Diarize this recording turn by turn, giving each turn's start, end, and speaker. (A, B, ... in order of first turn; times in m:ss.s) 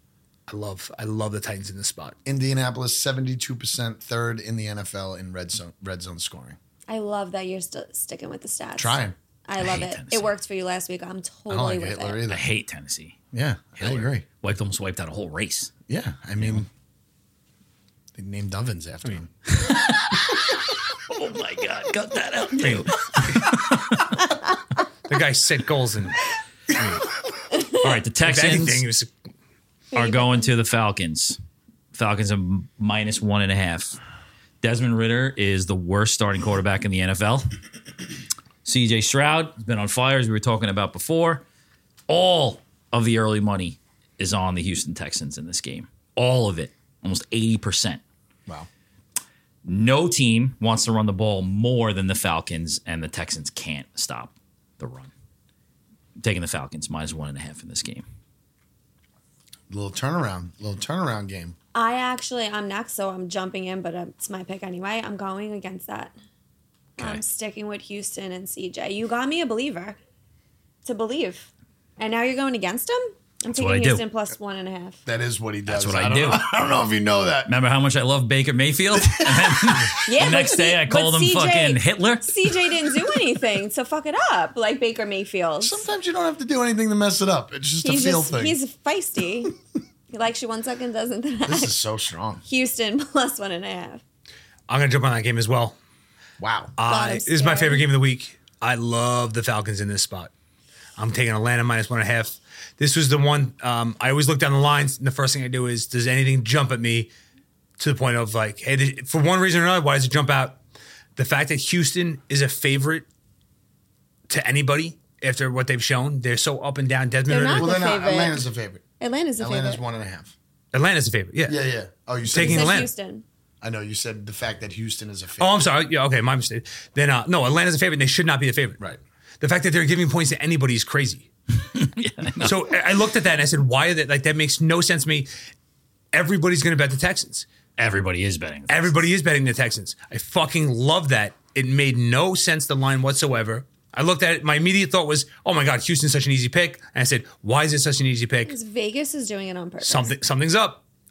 0:00.5-0:02.2 A
0:02.3-0:06.6 B
0:06.9-0:12.2 C
0:08.8-0:09.2 B
0:09.6-0:10.3 D
0:11.5-0:12.5 B
0:12.3-0:13.2 D
0:13.3-0:14.2 B
0:13.8-0:15.7 D
0:15.9-0:16.7 B
0:18.2-0:19.3 B
0:19.5-0:24.2 D
0:22.6-0:23.4 A
0:25.1-0:27.1 A
0:27.5-0:27.8 C
0:27.7-0:28.9 D
0:28.2-0:29.1 A
0:29.9-0:30.5 C
0:29.9-0:31.4 D
0:31.9-0:34.0 D
0:34.6-0:37.5 D
0:38.6-0:41.4 D
0:42.1-0:48.0 D
0:49.6-0:55.1 D
0:56.2-0:58.0 D
0:59.7-1:01.6 B
1:01.7-1:06.1 C
1:07.0-1:10.0 C
1:10.8-1:15.0 C
1:13.5-1:14.0 D
1:15.1-1:17.5 B
1:15.7-1:16.4 D
1:17.5-1:22.7 D
1:18.9-1:20.0 B
1:20.0-1:25.8 C
1:25.6-1:28.6 B
1:27.8-1:29.5 C
1:30.1-1:31.7 C
1:31.5-1:32.4 B
1:32.4-1:34.0 C
1:34.7-1:35.8 A
1:36.4-1:36.8 B
1:36.8-1:40.3 A
1:36.9-1:37.9 C
1:41.0-1:47.1 A
1:47.8-1:50.6 A
1:51.2-1:53.1 A
1:54.3-1:57.7 A
1:57.3-1:58.4 C
1:57.6-1:58.8 B
1:59.0-1:59.8 C
1:59.4-2:00.3 B
2:00.7-2:01.6 A
2:01.5-2:02.9 B
2:02.3-2:02.9 A
2:02.4-2:03.2 C
2:03.6-2:05.6 B
2:05.4-2:08.8 A
2:09.4-2:11.3 A
2:11.7-2:12.7 D
2:12.4-2:15.3 A
2:16.1-2:17.5 A
2:17.8-2:19.0 D
2:18.7-2:28.5 A
2:28.5-2:30.2 C
2:29.8-2:30.8 A